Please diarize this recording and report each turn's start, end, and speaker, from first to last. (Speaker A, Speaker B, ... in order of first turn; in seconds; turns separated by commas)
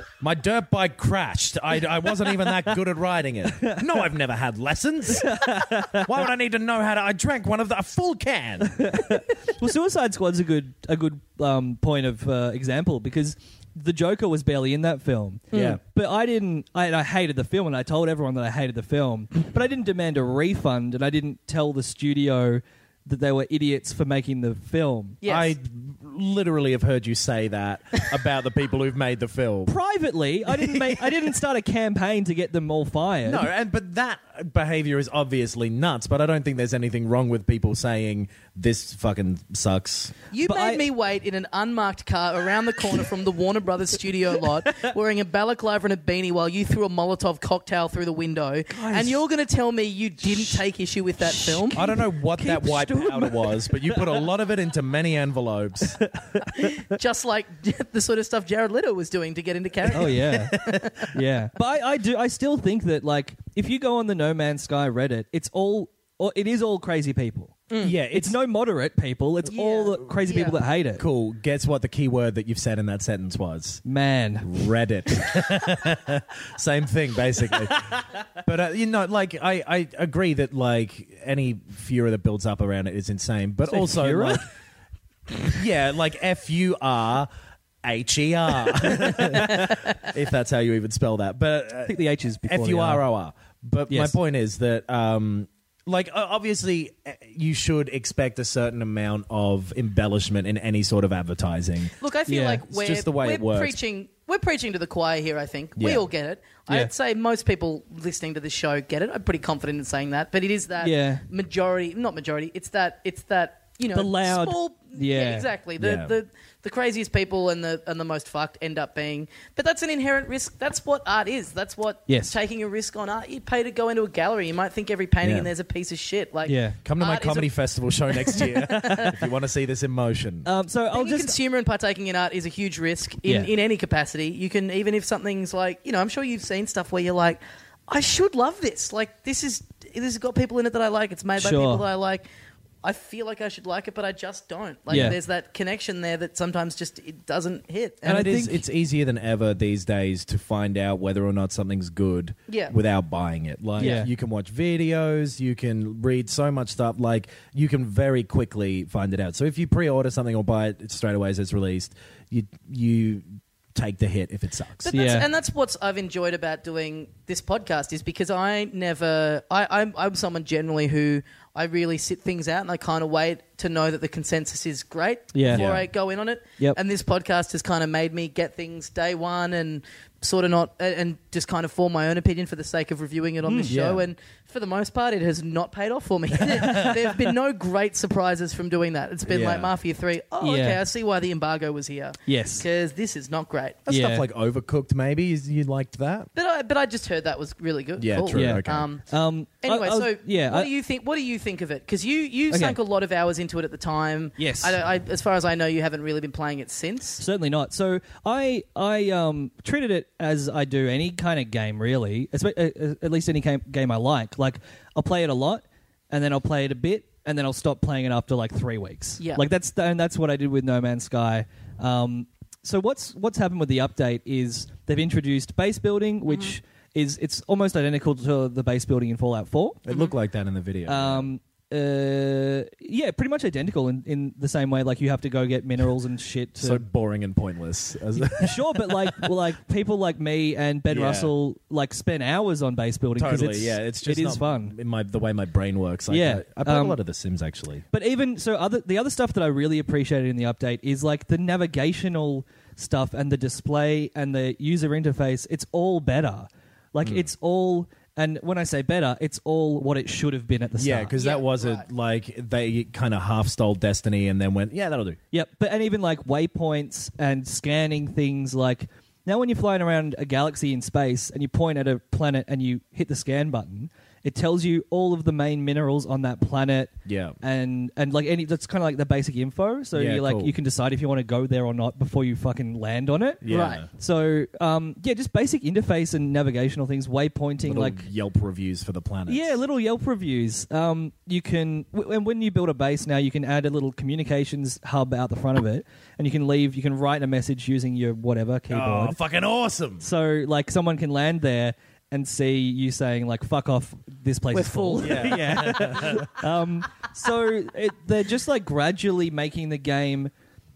Speaker A: 0.2-8.9, Speaker B: 5.2-6.1, Speaker B: 8.7-25.2, Speaker A: 15.5-15.8, Speaker C: 25.2-25.5, Speaker A: 25.2-29.7, Speaker B: 29.7-33.5, Speaker A: 30.5-31.1, Speaker A: 33.2-40.1, Speaker C: 40.3-51.8, Speaker B: 40.4-40.8, Speaker B: 48.7-49.2, Speaker B: 50.3-50.6, Speaker B: 51.2-54.2, Speaker A: 51.7-56.0, Speaker B: 56.0-56.8, Speaker C: 56.5-61.1, Speaker B: 59.9-60.6, Speaker A: 60.1-60.9, Speaker B: 61.1-71.0, Speaker C: 67.7-68.0, Speaker A: 67.8-68.4, Speaker C: 69.5-70.5, Speaker A: 71.0-73.8, Speaker B: 73.8-74.6, Speaker A: 74.4-84.5, Speaker B: 83.7-84.5, Speaker A: 85.5-87.3, Speaker A: 87.8-101.9, Speaker B: 89.1-89.6, Speaker B: 91.9-93.0, Speaker B: 93.9-94.1, Speaker C: 102.0-127.5, Speaker B: 102.3-102.6, Speaker A: 102.7-103.8, Speaker A: 105.8-106.0, Speaker B: 110.8-111.2, Speaker B: 113.9-115.5, Speaker A: 115.8-116.1, Speaker B: 122.1-122.3, Speaker A: 125.2-125.5, Speaker B: 126.5-126.8, Speaker A: 126.8-130.5, Speaker C: 128.3-129.1, Speaker B: 128.6-129.2, Speaker B: 130.4-131.3, Speaker C: 130.9-142.2, Speaker B: 141.4-141.8, Speaker C: 142.8-148.2, Speaker B: 144.9-145.2, Speaker B: 148.0-148.6, Speaker A: 148.0-164.9, Speaker C: 152.5-152.7, Speaker B: 153.8-154.1, Speaker C: 164.8-193.8, Speaker B: 164.9-165.3, Speaker B: 175.3-175.7, Speaker A: 175.5-175.8, Speaker B: 183.4-183.7, Speaker A: 183.7-184.0, Speaker A: 186.5-186.9, Speaker A: 189.3-189.7, Speaker B: 190.4-190.8, Speaker B: 192.3-192.6, Speaker A: 193.8-196.3, Speaker B: 193.9-194.2, Speaker C: 196.3-199.0, Speaker A: 198.0-198.8, Speaker B: 198.3-200.7, Speaker C: 199.6-207.2, Speaker B: 202.5-202.8, Speaker B: 204.4-204.7, Speaker B: 207.2-229.8, Speaker C: 219.2-219.4, Speaker A: 229.8-231.3, Speaker B: 230.8-236.8, Speaker A: 236.6-239.3, Speaker B: 238.2-244.7, Speaker A: 240.9-241.3, Speaker A: 243.2-247.8, Speaker B: 246.1-247.0, Speaker B: 247.9-261.1, Speaker A: 257.0-257.3, Speaker A: 260.8-265.2, Speaker C: 261.2-261.9, Speaker B: 265.3-288.0, Speaker A: 277.1-277.4, Speaker A: 279.9-280.5, Speaker A: 283.4-283.9, Speaker C: 283.5-283.8, Speaker A: 287.6-289.6, Speaker B: 289.3-299.2, Speaker A: 298.7-300.1, Speaker B: 300.0-310.3, Speaker C: 304.5-305.7, Speaker A: 305.0-306.3